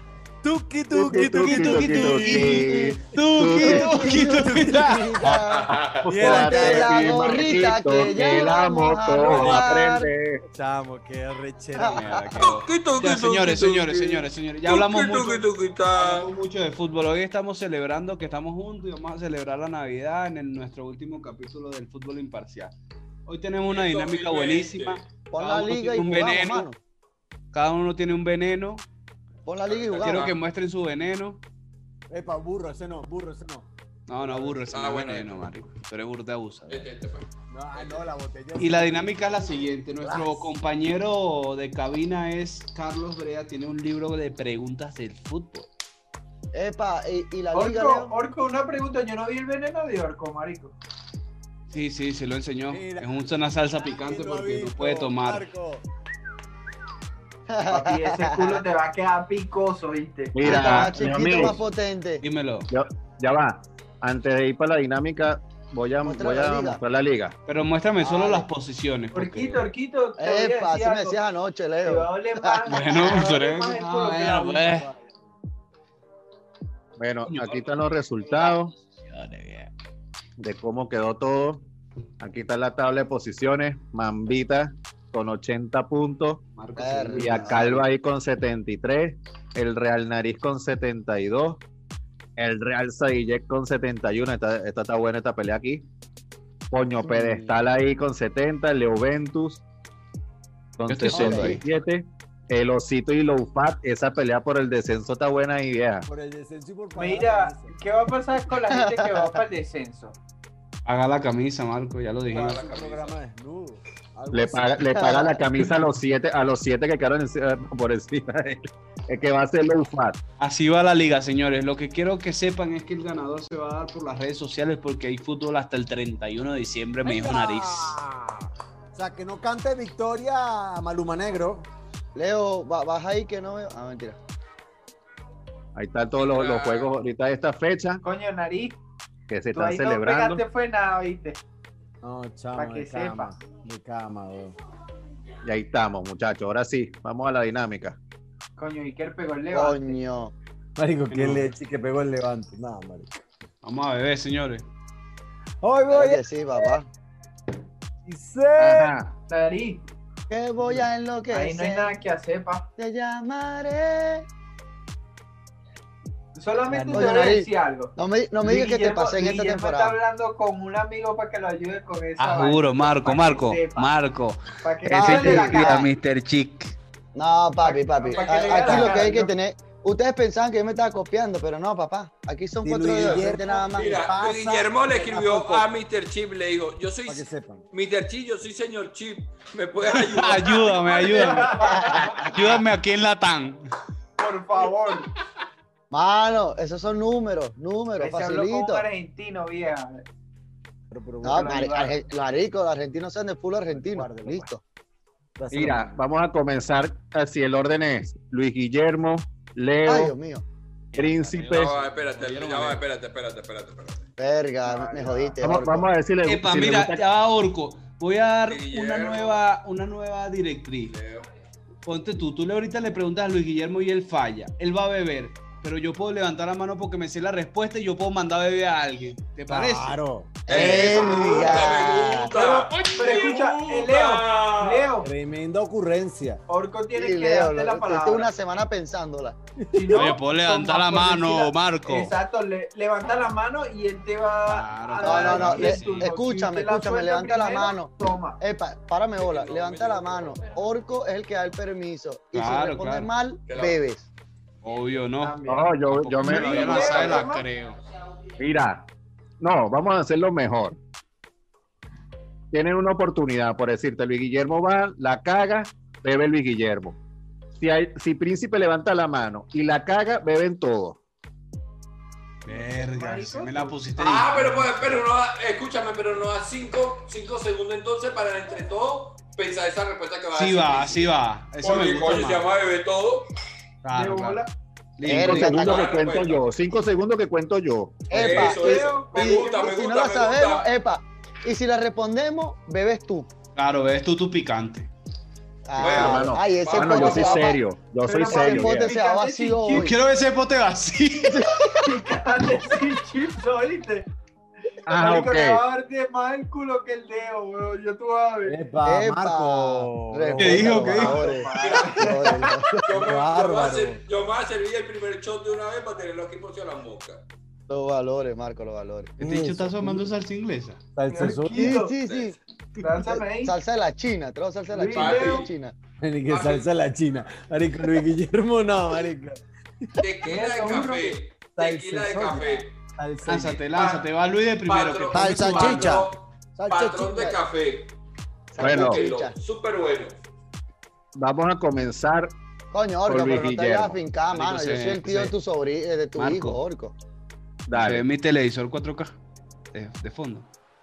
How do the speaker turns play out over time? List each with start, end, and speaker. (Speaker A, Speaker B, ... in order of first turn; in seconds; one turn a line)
Speaker A: 0.4-2.7
Speaker B: 0.9-4.0
Speaker C: 1.4-5.1
Speaker D: 2.6-3.0
Speaker A: 3.5-5.4
Speaker D: 3.6-10.1
Speaker E: 5.5-6.1
Speaker B: 5.7-10.4
Speaker A: 6.0-7.5
Speaker A: 8.1-8.4
Speaker A: 9.2-9.9
Speaker A: 10.5-12.1
Speaker D: 11.8-12.4
Speaker C: 11.9-22.7
Speaker E: 12.4-16.3
Speaker C: 23.3-26.7
Speaker E: 23.7-25.0
Speaker D: 25.3-26.8
Speaker C: 27.5-28.8
Speaker D: 29.5-30.3
Speaker E: 29.7-30.3
Speaker C: 30.0-31.4
Speaker A: 32.1-34.7
Speaker C: 34.1-36.9
Speaker E: 34.7-35.4
Speaker E: 36.7-38.1
Speaker A: 37.5-39.6
Speaker C: 38.6-45.7
Speaker D: 40.1-40.4
Speaker D: 46.5-48.1
Speaker F: 47.5-50.8
Speaker C: 51.7-55.5
Speaker A: 52.7-53.1
Speaker A: 54.0-55.8
Speaker D: 57.5-58.6
Speaker F: 57.7-60.4
Speaker B: 60.3-61.6
Speaker D: 60.4-62.2
Speaker C: 60.4-60.9
Speaker C: 62.2-62.7
Speaker B: 62.7-67.3
Speaker D: 66.0-66.8
Speaker C: 67.5-69.7
Speaker D: 68.0-68.5
Speaker F: 69.1-71.2
Speaker D: 70.2-72.9
Speaker F: 71.8-74.7
Speaker C: 72.7-74.9
Speaker A: 74.7-75.2
Speaker B: 77.0-78.7
Speaker C: 77.2-77.8
Speaker C: 79.1-79.7
Speaker B: 80.4-81.7
Speaker B: 82.2-86.4
Speaker C: 86.6-87.8
Speaker D: 86.8-87.6
Speaker B: 87.1-91.6
Speaker B: 92.4-95.9
Speaker B: 96.7-99.6
Speaker A: 97.0-97.6
Speaker B: 100.8-106.1
Speaker C: 100.9-101.6
Speaker D: 101.1-101.6
Speaker A: 106.1-107.7
Speaker F: 107.0-110.2
Speaker D: 108.7-109.4
Speaker C: 110.9-112.7
Speaker A: 112.3-115.1
Speaker E: 112.3-113.2
Speaker B: 114.3-120.2
Speaker D: 115.0-115.4
Speaker C: 120.4-128.0
Speaker A: 127.0-131.7
Speaker D: 132.2-134.2
Speaker B: 135.8-138.0
Speaker E: 136.2-136.9
Speaker F: 138.0-138.8
Speaker B: 139.3-140.4
Speaker F: 139.5-141.4
Speaker A: 142.0-144.6
Speaker F: 142.6-143.3
Speaker B: 145.4-148.0
Speaker F: 148.6-150.0
Speaker D: 149.5-150.3
Speaker A: 150.8-153.2
Speaker C: 151.1-151.5
Speaker C: 153.6-154.7
Speaker A: 155.6-156.7
Speaker D: 155.9-156.9
Speaker A: 158.1-159.0
Speaker B: 158.6-159.1
Speaker F: 159.3-159.8
Speaker D: 160.3-162.0
Speaker A: 160.6-160.9
Speaker F: 161.3-162.7
Speaker D: 162.8-164.3
Speaker F: 166.3-173.9
Speaker A: 166.7-167.3
Speaker D: 166.9-170.0
Speaker C: 172.2-176.8
Speaker F: 174.6-175.9
Speaker D: 174.9-175.9
Speaker D: 177.2-184.0
Speaker F: 177.6-179.3
Speaker A: 178.5-179.1
Speaker A: 182.6-185.7
Speaker F: 182.9-183.3
Speaker E: 183.7-191.1
Speaker A: 187.1-187.7
Speaker C: 190.0-191.6
Speaker F: 190.9-192.4
Speaker D: 191.8-192.3
Speaker C: 192.2-193.7
Speaker F: 194.2-195.1
Speaker D: 195.9-198.8
Speaker F: 198.0-200.1
Speaker A: 200.9-201.6
Speaker D: 201.2-204.6
Speaker F: 201.3-202.0
Speaker A: 203.7-204.5
Speaker A: 205.4-206.0
Speaker B: 205.5-210.1
Speaker D: 209.9-210.4
Speaker C: 210.9-212.8
Speaker B: 210.9-211.7
Speaker E: 211.5-214.1
Speaker D: 214.2-215.9
Speaker F: 214.6-215.4
Speaker B: 215.4-217.0
Speaker C: 216.3-220.9
Speaker E: 218.5-219.4
Speaker E: 220.9-221.3
Speaker C: 221.8-231.4
Speaker A: 229.5-230.5
Speaker D: 230.5-232.3
Speaker E: 230.5-234.9
Speaker F: 231.2-231.5
Speaker F: 232.3-235.1
Speaker A: 235.0-236.4
Speaker F: 236.5-238.3
Speaker D: 236.9-239.4
Speaker A: 239.6-240.1
Speaker F: 239.7-248.4
Speaker C: 239.9-242.1
Speaker C: 244.5-246.1
Speaker D: 245.0-254.1
Speaker E: 249.2-250.5
Speaker C: 252.3-253.1
Speaker E: 253.5-253.8
Speaker C: 254.6-257.8
Speaker F: 255.2-257.5
Speaker B: 255.5-257.2
Speaker B: 258.4-258.9
Speaker B: 259.4-260.8
Speaker B: 262.5-267.0
Speaker B: 267.6-271.0
Speaker C: 272.4-275.0
Speaker F: 272.5-273.7
Speaker E: 274.0-283.3
Speaker C: 280.3-282.5
Speaker C: 283.8-284.4
Speaker F: 283.9-284.5
Speaker C: 285.0-285.8
Speaker D: 285.0-285.9
Speaker B: 285.1-288.1
Speaker E: 285.5-286.4
Speaker D: 288.1-293.3
Speaker E: 288.1-290.7
Speaker F: 288.2-289.9
Speaker C: 293.6-294.9
Speaker D: 295.7-299.9
Speaker E: 295.8-297.5
Speaker B: 295.9-298.9
Speaker F: 298.1-299.9
Speaker C: 299.7-301.8
Speaker D: 301.3-301.5
Speaker F: 301.8-304.1
Speaker B: 304.9-305.6
Speaker F: 304.9-308.6
Speaker A: 308.4-310.9
Speaker D: 308.9-312.9
Speaker C: 310.4-311.3
Speaker F: 310.9-312.4
Speaker E: 311.6-312.2
Speaker A: 312.8-314.0
Speaker E: 312.9-317.2
Speaker D: 317.7-319.1
Speaker C: 319.2-320.8
Speaker A: 319.2-320.1
Speaker A: 321.0-321.8
Speaker F: 321.1-322.0
Speaker D: 321.5-322.4
Speaker E: 322.0-322.3
Speaker F: 322.8-323.6
Speaker D: 323.0-325.8
Speaker F: 324.7-325.5
Speaker E: 324.9-325.5
Speaker A: 326.0-330.0
Speaker E: 326.3-326.7
Speaker E: 330.0-332.8
Speaker F: 330.2-331.2
Speaker A: 331.5-333.6
Speaker C: 333.3-336.1
Speaker E: 333.7-334.1
Speaker E: 334.7-337.9
Speaker A: 335.1-336.1
Speaker D: 336.6-337.4
Speaker D: 338.5-339.3
Speaker E: 338.6-340.2
Speaker B: 338.6-339.0
Speaker B: 341.1-342.3
Speaker D: 342.7-346.9
Speaker B: 343.1-344.0
Speaker C: 344.3-345.4
Speaker C: 346.2-346.6
Speaker B: 347.7-348.0
Speaker C: 347.7-349.1
Speaker C: 349.7-350.5